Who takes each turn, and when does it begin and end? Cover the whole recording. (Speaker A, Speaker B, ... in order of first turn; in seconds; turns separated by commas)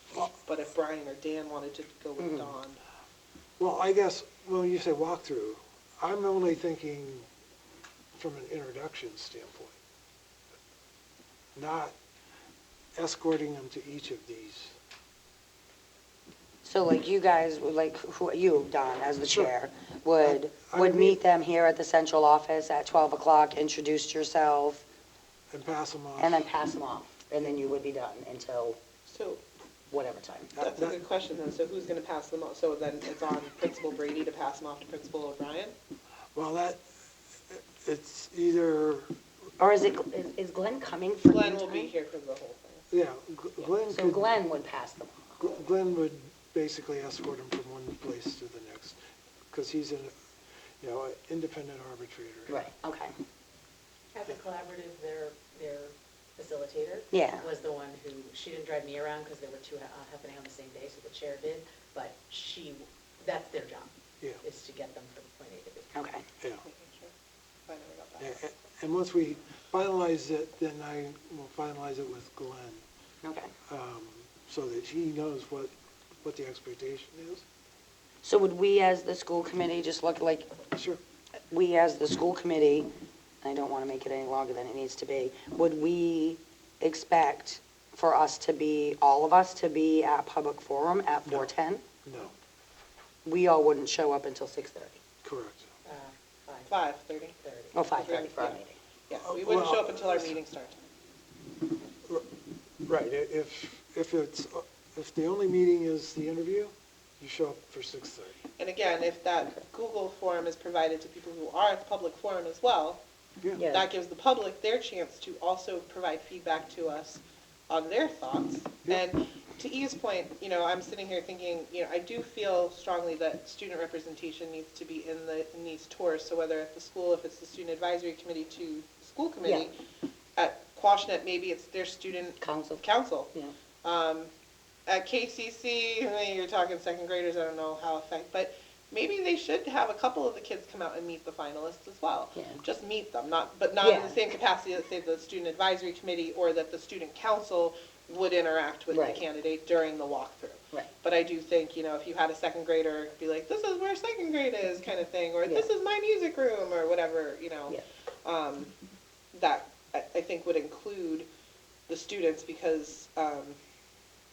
Speaker A: 0.3-2.8, Speaker B: 2.2-2.5, Speaker C: 3.6-7.3, Speaker C: 8.2-9.8, Speaker C: 11.6-12.0, Speaker C: 13.0-14.8, Speaker B: 16.6-24.8, Speaker C: 20.2-21.2, Speaker C: 25.5-26.5, Speaker B: 26.2-28.8, Speaker A: 29.1-29.4, Speaker B: 29.9-30.5, Speaker C: 30.6-31.0, Speaker A: 30.6-35.8, Speaker C: 36.3-36.8, Speaker C: 37.5-39.1, Speaker B: 39.6-41.9, Speaker A: 41.2-42.9, Speaker C: 42.9-44.2, Speaker B: 43.9-45.4, Speaker C: 45.4-49.0, Speaker C: 49.5-50.1, Speaker C: 50.8-52.6, Speaker B: 52.5-53.1, Speaker D: 54.1-63.9, Speaker B: 57.1-57.5, Speaker D: 64.4-66.0, Speaker B: 65.9-66.2, Speaker A: 66.6-67.1, Speaker A: 67.7-68.4, Speaker C: 68.2-72.8, Speaker B: 73.2-73.5, Speaker C: 73.7-77.5, Speaker B: 78.2-80.5, Speaker B: 81.5-82.9, Speaker B: 83.4-91.8, Speaker C: 91.3-91.5, Speaker C: 92.0-92.3, Speaker B: 93.2-95.0, Speaker C: 95.2-95.7, Speaker D: 95.8-96.7, Speaker A: 96.7-97.4, Speaker D: 97.4-98.2, Speaker B: 97.7-98.8, Speaker A: 97.9-100.8, Speaker C: 99.2-100.4, Speaker C: 102.8-108.4, Speaker A: 108.6-113.0, Speaker B: 113.6-113.8, Speaker A: 113.7-129.7, Speaker A: 130.4-133.3, Speaker B: 132.4-133.5, Speaker A: 133.8-134.3, Speaker A: 134.9-158.7, Speaker B: 142.3-142.6, Speaker B: 143.8-144.2, Speaker B: 148.9-149.2, Speaker A: 159.3-161.3, Speaker A: 161.9-163.6